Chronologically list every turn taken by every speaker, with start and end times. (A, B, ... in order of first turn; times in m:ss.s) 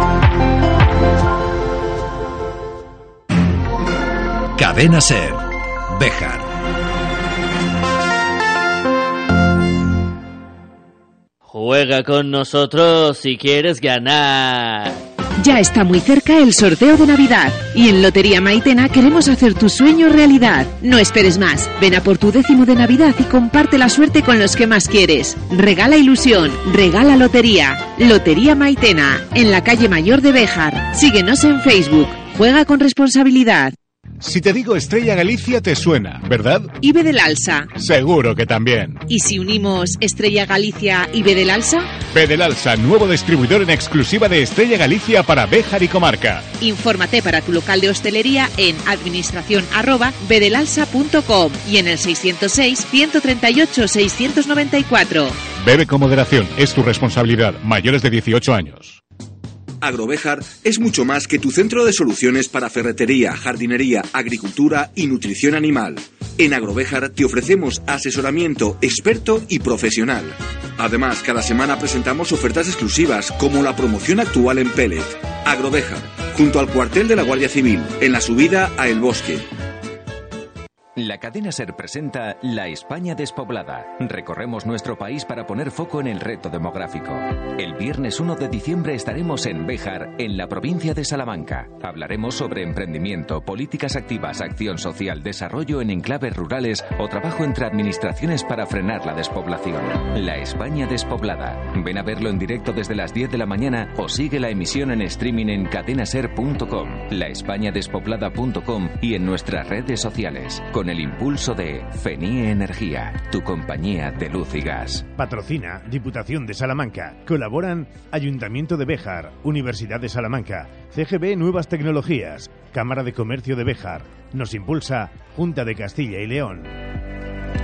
0:04.6-0:05.4 A
0:05.9-0:06.4 A
0:11.5-0:15.0 B
0:15.4-0:33.7 C
0:34.2-0:36.8 D
0:36.8-0:37.7 C
0:37.8-0:39.0 D
0:39.1-0:41.9 C
0:42.1-0:46.5 D
0:46.6-0:55.4 C
0:55.6-0:59.0 D
0:59.8-1:19.5 E
1:21.0-1:55.1 A
1:55.2-2:06.7 F